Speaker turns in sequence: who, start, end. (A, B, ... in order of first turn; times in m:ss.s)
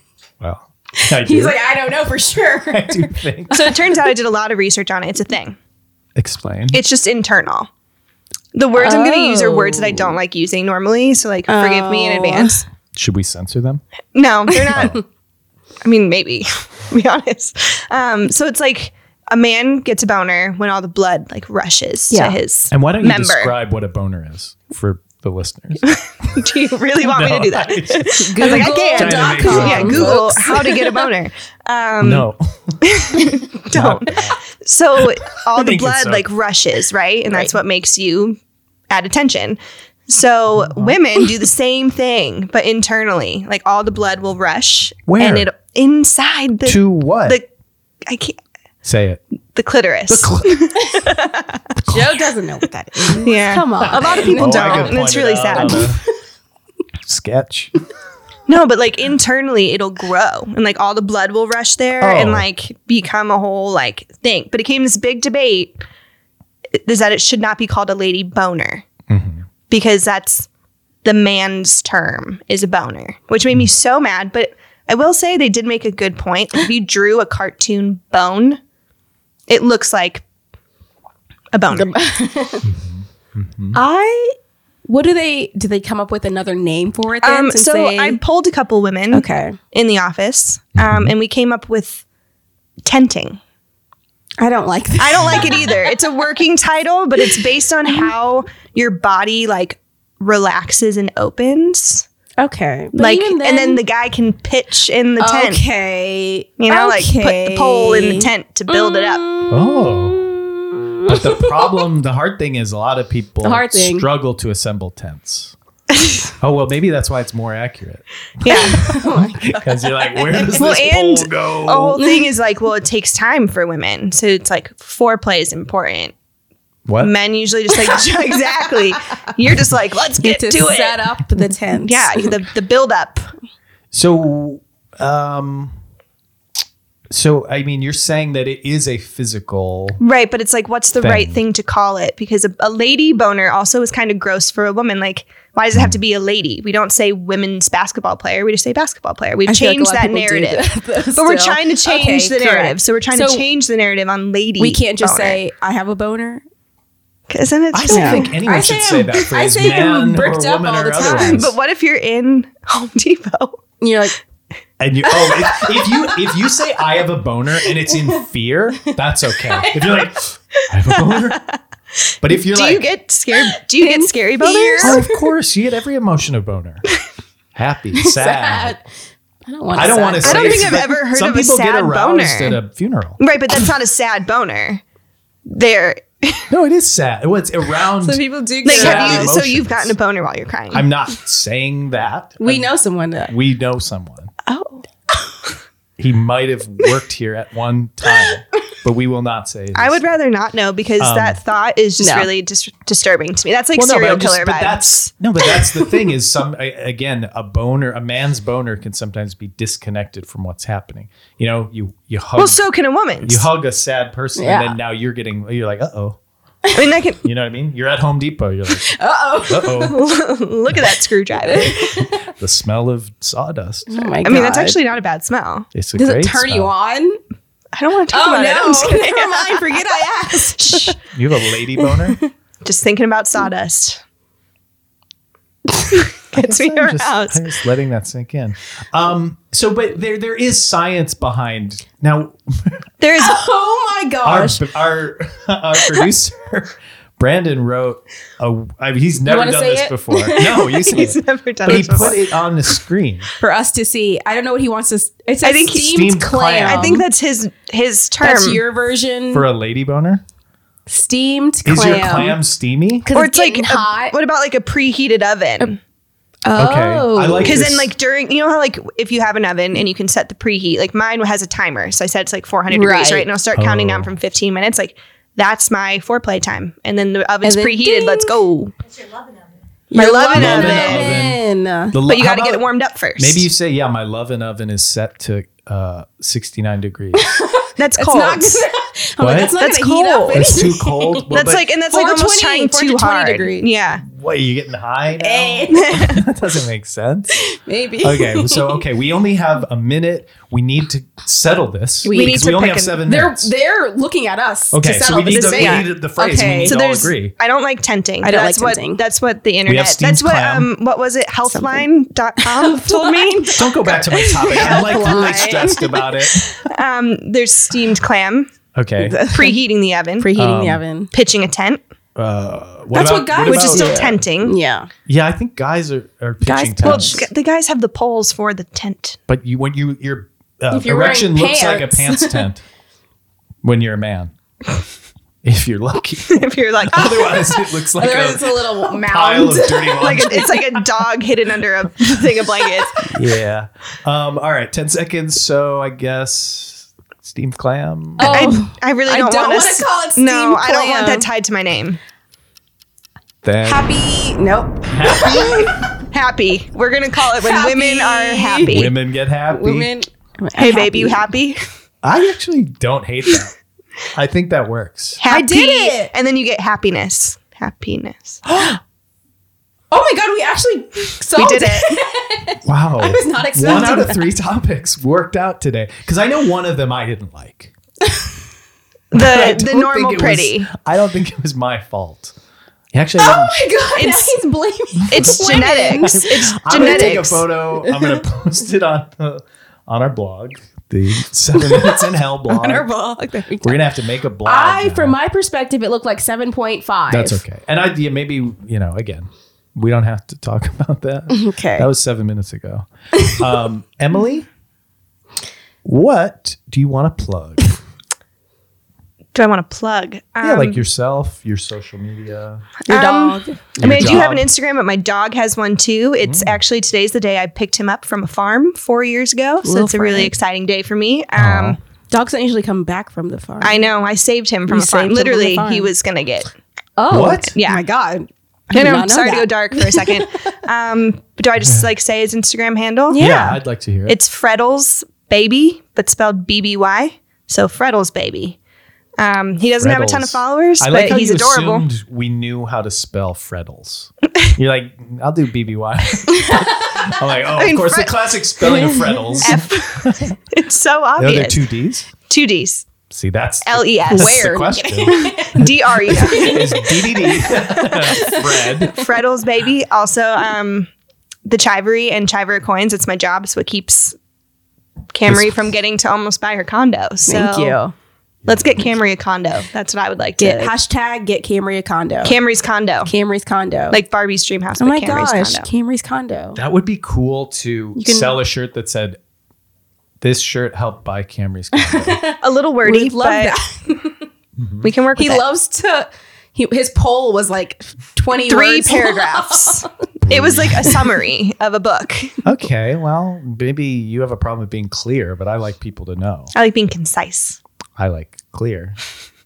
0:00.4-0:03.7 A
0:01.0-0:03.7 B
0:03.5-0:05.6 C
0:06.2-0:06.8 A
0:06.7-0:07.7 C
0:08.5-0:12.6 C
0:08.8-0:10.2 B
0:11.5-0:12.6 B
0:12.9-0:13.8 A
0:14.1-0:15.0 C
0:14.6-0:15.0 B
0:14.7-0:15.0 A
0:15.8-0:23.5 C
0:22.1-0:22.4 B
0:22.7-0:26.4 A
0:25.8-0:32.3 C
0:27.0-0:30.4 A
0:28.1-0:31.1 B
0:32.0-0:33.2 A
0:32.8-0:38.4 C
0:33.7-0:34.4 A
0:35.5-0:36.2 A
0:38.9-0:47.5 C
0:40.5-0:41.0 A
0:45.1-0:45.5 A
0:46.6-0:47.4 A
0:48.0-0:48.4 C
0:48.8-0:49.2 A
0:49.5-0:51.6 C
0:50.1-0:50.7 A
0:51.8-0:52.1 A
0:51.9-0:55.0 B
0:53.2-0:55.9 C
0:53.9-0:56.0 A
0:55.6-0:56.0 B
0:57.0-0:57.7 A
0:58.5-1:05.8 C
1:02.0-1:02.4 A
1:06.7-1:08.8 C
1:09.1-1:09.4 A
1:09.7-1:10.5 C
1:11.0-1:18.6 C
1:19.5-1:20.2 C
1:21.5-1:21.9 C
1:21.7-1:22.7 B
1:22.6-1:23.8 A
1:23.7-1:28.2 B
1:27.2-1:32.0 C
1:29.1-1:29.6 B
1:30.8-1:31.1 A
1:32.8-1:33.4 C
1:34.4-1:35.9 B
1:35.0-1:42.0 C
1:42.4-1:43.8 B
1:43.0-1:45.6 C
1:45.2-1:51.7 B
1:46.6-1:49.2 C
1:49.5-1:50.2 A
1:51.0-1:55.5 A
1:53.4-1:54.1 B
1:56.4-2:02.0 A
1:58.4-1:59.0 C
1:58.5-2:00.7 B
2:00.5-2:06.1 C
2:02.0-2:02.2 B
2:06.8-2:07.1 A
2:07.0-2:11.0 C
2:10.2-2:12.3 B
2:11.8-2:13.3 C
2:13.9-2:15.8 A
2:17.1-2:20.0 A
2:20.0-2:35.4 C
2:21.0-2:21.4 A
2:29.4-2:33.4 B
2:34.6-2:36.4 B
2:37.3-2:38.3 C
2:37.7-2:41.5 A
2:37.9-2:41.5 B
2:41.0-2:43.6 C
2:43.8-2:44.2 B
2:44.8-2:51.4 A
2:45.0-2:46.4 B
2:47.8-2:48.2 B
2:48.8-2:50.1 B
2:51.0-2:51.6 C
2:52.2-2:52.8 A
2:52.3-2:55.0 C
2:53.4-2:55.3 B
2:54.8-2:56.8 A
2:57.5-2:58.8 A
2:57.9-2:58.8 B
2:59.5-3:00.8 B
2:59.7-3:03.2 A
3:00.2-3:02.6 C
3:03.2-3:04.8 C
3:05.4-3:06.5 C
3:06.5-3:09.9 A
3:08.0-3:09.4 B
3:08.6-3:10.8 C
3:10.7-3:12.7 A
3:12.4-3:13.3 B
3:13.3-3:14.3 A
3:14.4-3:14.8 C
3:16.0-3:20.0 A
3:19.7-3:25.1 C
3:21.0-3:21.4 A
3:22.0-3:22.3 B
3:23.7-3:32.6 A
3:25.6-3:25.9 B
3:32.4-3:33.5 C
3:33.2-3:36.2 A
3:34.4-3:34.7 B
3:36.6-3:36.9 B
3:36.7-3:37.2 C
3:37.2-3:40.0 A
3:38.8-3:40.0 B
3:39.8-3:42.1 C
3:41.5-3:42.2 B
3:42.3-3:44.2 A
3:43.9-3:44.8 B
3:44.2-3:45.7 C
3:45.7-3:46.7 A
3:45.9-3:47.2 B
3:47.7-3:50.0 C
3:48.1-3:51.0 B
3:50.6-3:51.0 C
3:51.1-3:52.2 A
3:51.9-3:52.3 B
3:52.6-3:54.0 C
3:55.9-3:57.5 C
3:56.3-4:02.8 A
4:03.0-4:03.4 C
4:03.2-4:04.6 B
4:04.2-4:13.3 A
4:09.2-4:10.3 B
4:10.3-4:12.2 C
4:13.4-4:17.0 B
4:15.4-4:16.0 C
4:15.7-4:16.9 A
4:16.6-4:18.6 C
4:18.2-4:19.5 B
4:19.3-4:20.2 A
4:20.9-4:22.4 B
4:21.6-4:23.1 A
4:23.0-4:24.1 B
4:23.1-4:25.8 C
4:26.4-4:27.6 B
4:26.5-4:27.9 A
4:27.4-4:38.7 C
4:32.7-4:33.3 B
4:33.5-4:34.1 A
4:37.4-4:38.3 B
4:39.9-4:42.0 B
4:39.9-4:41.2 C
4:40.3-4:42.6 A
4:42.0-4:43.4 C
4:43.2-4:47.3 A
4:47.1-4:51.3 B
4:47.8-4:48.7 C
4:49.2-4:49.6 A
4:49.6-4:50.5 C
4:50.3-4:51.7 A
4:51.3-4:54.0 C
4:51.9-4:53.7 B
4:54.0-4:57.4 A
4:55.2-4:56.1 B
4:55.9-4:56.1 C
4:57.4-4:58.8 B
4:58.0-5:03.5 A
5:02.0-5:02.5 B
5:02.0-5:03.0 C
5:03.0-5:06.8 B
5:04.7-5:07.3 A
5:05.2-5:13.7 C
5:08.2-5:09.0 B
5:09.6-5:10.7 A
5:11.5-5:11.8 B
5:12.4-5:16.0 B
5:13.5-5:16.6 A
5:14.5-5:15.1 C
5:16.6-5:18.5 C
5:18.7-5:19.2 A
5:19.0-5:19.6 B
5:19.3-5:20.4 C
5:20.2-5:21.1 B
5:20.4-5:20.8 A
5:21.1-5:21.8 C
5:22.2-5:24.1 A
5:22.9-5:24.9 B
5:23.4-5:24.6 C
5:25.1-5:27.2 A
5:26.4-5:27.2 B
5:26.8-5:29.2 C
5:29.3-5:32.6 A
5:30.7-5:32.5 B
5:33.6-5:34.3 A
5:35.4-5:40.8 A
5:36.3-5:37.7 C
5:38.0-5:40.3 B
5:39.9-5:43.1 C
5:43.0-5:48.5 A
5:48.2-5:51.2 B
5:48.2-5:52.0 C
5:53.4-5:53.9 A
5:53.6-5:55.7 B
5:54.9-5:55.8 A
5:56.1-5:58.9 C
5:57.4-5:58.9 B
5:58.7-5:59.9 A
5:59.5-6:01.2 B
6:00.6-6:01.6 C
6:02.0-6:03.5 A
6:04.1-6:05.2 A
6:05.2-6:08.4 C
6:05.2-6:06.1 B
6:08.5-6:08.8 A
6:09.9-6:14.3 B
6:11.3-6:11.9 C
6:12.6-6:17.7 A
6:19.1-6:20.7 C
6:19.1-6:22.3 A
6:22.9-6:23.5 A
6:23.2-6:27.3 B
6:23.9-6:24.4 C
6:25.1-6:27.4 C
6:25.1-6:32.9 A
6:27.8-6:28.2 B
6:31.5-6:33.8 B
6:33.6-6:35.2 A
6:34.4-6:37.4 B
6:37.1-6:44.5 A
6:41.3-6:41.9 B
6:45.8-6:47.7 A
6:49.3-6:50.8 C
6:50.4-6:52.6 A
6:52.8-6:54.2 B
6:52.9-7:01.8 C
6:53.8-6:54.5 A
6:56.2-6:56.6 A
6:59.6-7:00.3 B
7:01.4-7:01.8 A
7:02.1-7:03.9 B
7:03.6-7:06.5 C
7:04.7-7:05.9 B
7:07.0-7:10.2 B
7:07.1-7:07.5 A
7:07.5-7:07.8 C
7:08.7-7:13.5 C
7:13.1-7:13.6 B
7:13.2-7:14.2 A
7:14.0-7:18.6 C
7:19.2-7:21.8 C
7:19.8-7:30.3 A
7:26.4-7:26.7 B
7:27.5-7:28.3 C
7:28.6-7:29.5 B
7:29.4-7:31.7 C
7:31.2-7:32.1 A
7:32.3-7:32.9 C
7:33.1-7:39.0 A
7:33.6-7:34.4 C
7:34.1-7:39.0 B
7:35.2-7:36.9 C
7:37.5-7:38.1 C
7:38.9-7:40.9 C
7:41.4-7:44.2 C
7:45.1-7:47.8 C
7:45.2-7:45.5 A
7:47.2-7:47.9 B
7:48.4-7:48.8 A
7:48.5-7:50.7 C
7:50.4-7:52.4 B
7:52.2-7:53.1 C
7:53.0-7:54.0 B
7:53.9-7:55.7 C
7:54.8-7:56.6 B
7:56.6-7:59.2 A
7:57.9-7:58.4 B
8:00.2-8:02.2 A
8:01.7-8:04.2 B
8:02.4-8:03.6 C
8:04.6-8:04.9 A
8:04.8-8:05.4 C
8:05.2-8:09.9 B
8:08.4-8:12.4 C
8:10.2-8:11.0 A
8:12.4-8:16.5 A
8:16.5-8:17.6 C
8:18.0-8:19.0 A